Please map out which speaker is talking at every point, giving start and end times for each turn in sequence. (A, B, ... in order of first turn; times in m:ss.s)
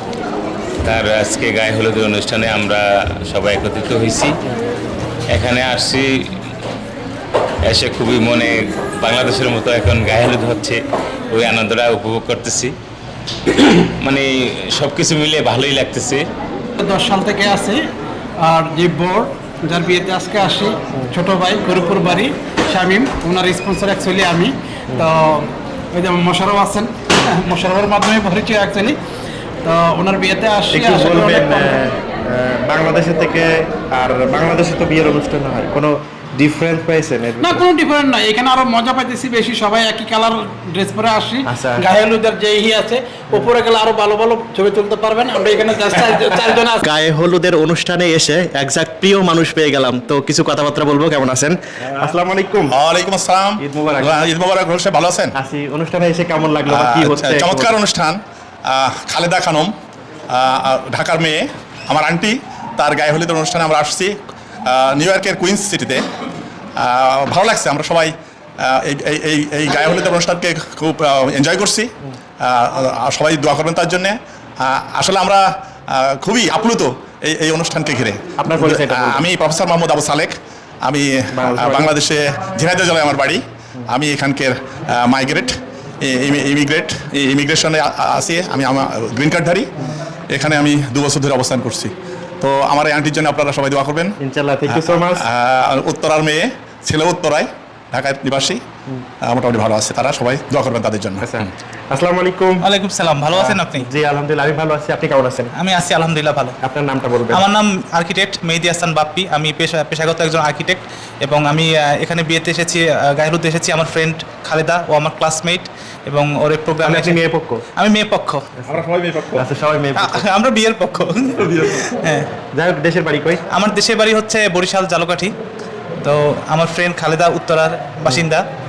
0:00.8-0:04.3 A
0:05.3-0:06.1 A
0:07.7-0:10.8 A
0:11.3-0:12.7 A
0:13.8-0:16.2 A
0:16.8-0:17.8 B
0:18.5-0:25.2 B
0:26.0-0:26.9 B
0:27.5-0:28.9 B
0:29.7-0:31.6 B
0:30.7-0:37.7 C
0:37.5-0:46.7 B
0:41.5-0:41.9 C
0:46.8-0:52.8 C
0:52.7-0:55.3 D
0:53.6-0:54.2 C
0:55.4-0:57.7 C
0:56.7-0:59.7 D
1:00.3-1:04.1 D
1:04.7-1:06.0 D
1:06.8-1:08.1 D
1:08.6-1:11.9 D
1:12.4-1:29.7 D
1:18.4-1:19.2 C
1:21.4-1:21.9 C
1:30.3-1:34.2 D
1:34.2-1:35.3 C
1:34.7-1:38.6 D
1:39.2-1:41.5 D
1:41.2-1:42.6 C
1:42.6-1:43.9 E
1:43.3-1:45.5 C
1:45.6-1:46.6 E
1:46.6-1:47.4 C
1:47.3-1:57.2 E
1:56.8-1:57.6 C
1:57.8-1:58.4 E
1:58.6-2:00.2 C
1:58.7-1:59.5 D
2:00.0-2:02.3 E
2:02.6-2:03.4 C
2:03.5-2:05.3 E
2:06.0-2:08.4 E